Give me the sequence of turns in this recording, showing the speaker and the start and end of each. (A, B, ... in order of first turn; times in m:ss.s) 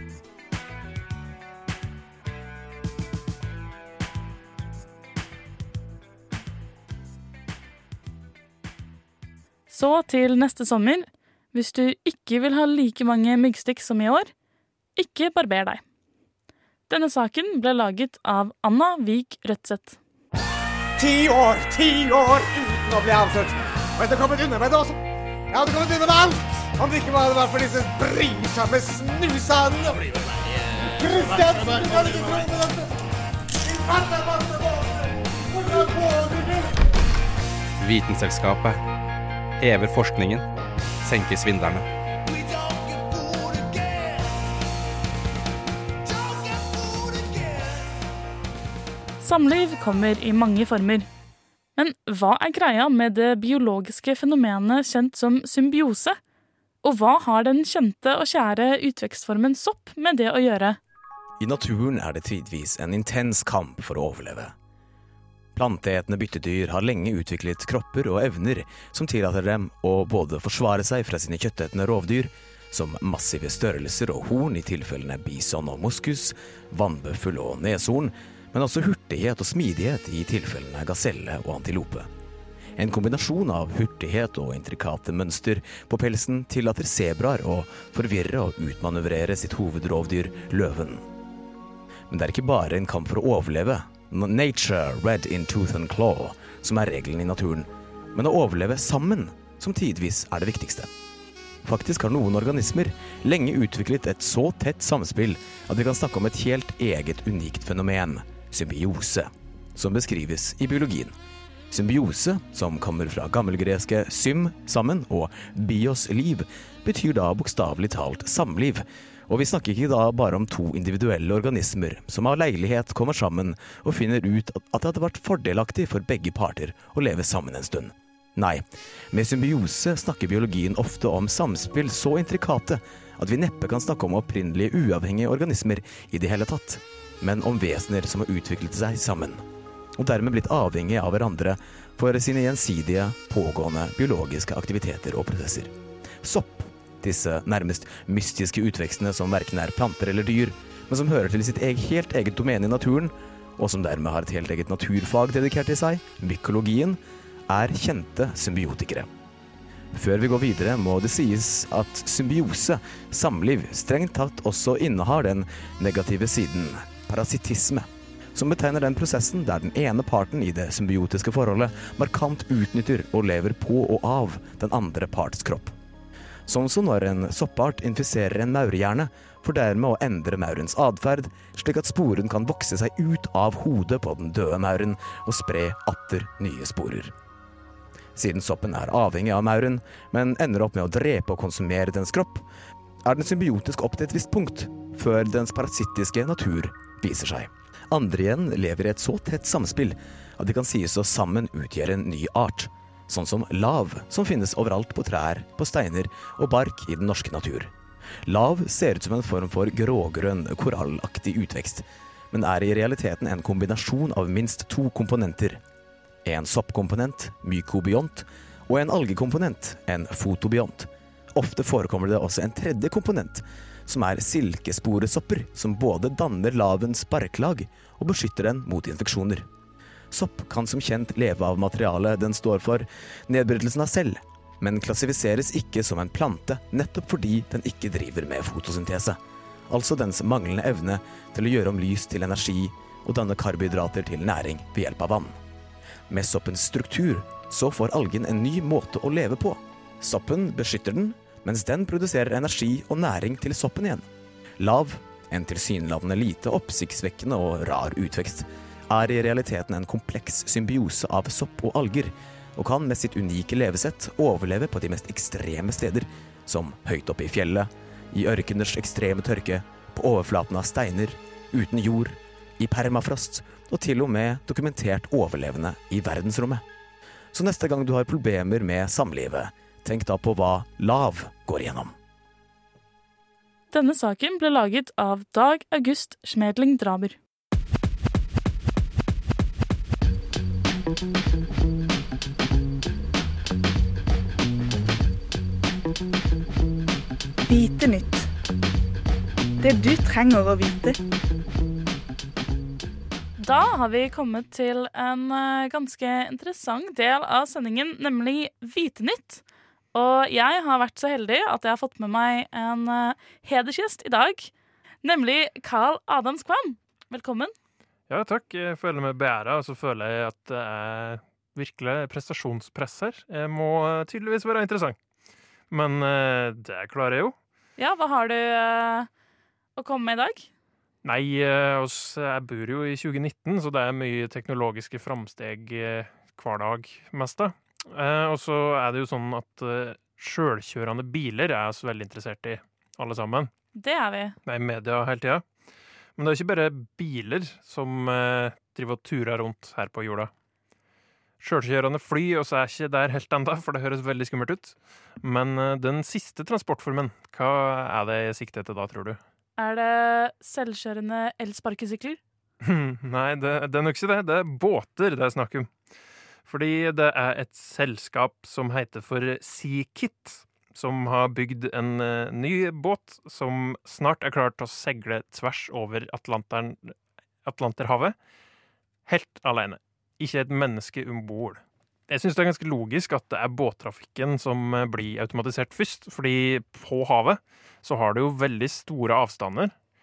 0:09.7-0:14.3 A
0:15.0-0:15.8 A
0:16.9-0:20.0 A
0:21.0-0:25.0 B
0:25.5-0:30.0 B
0:31.0-0:32.9 B
0:33.6-0:36.7 B
0:37.8-0:38.8 C
0:39.6-0:40.4 C
0:41.0-0:41.9 C
0:49.2-0:51.1 A
0:51.8-0:56.2 A
0:56.8-1:00.8 A
1:01.4-1:04.5 D
1:05.6-1:22.1 D
1:22.8-1:31.0 D
1:32.1-1:40.9 D
1:41.6-1:51.1 D
1:51.7-2:19.4 D
2:20.0-2:25.7 D
2:26.2-2:39.1 D
2:39.9-2:55.7 D
2:56.5-3:07.1 D
3:08.2-3:12.4 D
3:13.0-3:27.7 D
3:28.3-3:35.6 D
3:36.2-3:49.5 D
3:50.1-3:59.2 D
3:59.7-4:05.4 D
4:06.1-4:14.0 D
4:14.6-4:36.6 D
4:37.3-4:41.9 D
4:43.7-4:47.2 A
4:57.5-4:58.3 E
4:59.6-5:01.0 E
5:03.4-5:09.4 A
5:09.9-5:14.5 A
5:15.0-5:17.5 A
5:18.1-5:25.0 F
5:25.7-5:27.4 F
5:27.8-5:29.1 A
5:29.8-5:30.5 A
5:31.0-5:43.5 F
5:43.8-5:44.4 A
5:44.5-5:45.4 F
5:46.2-5:50.3 F
5:51.4-5:59.2 F
5:59.6-6:02.2 A
6:02.6-6:05.7 F
6:06.5-6:18.2 F
6:19.1-6:29.7 F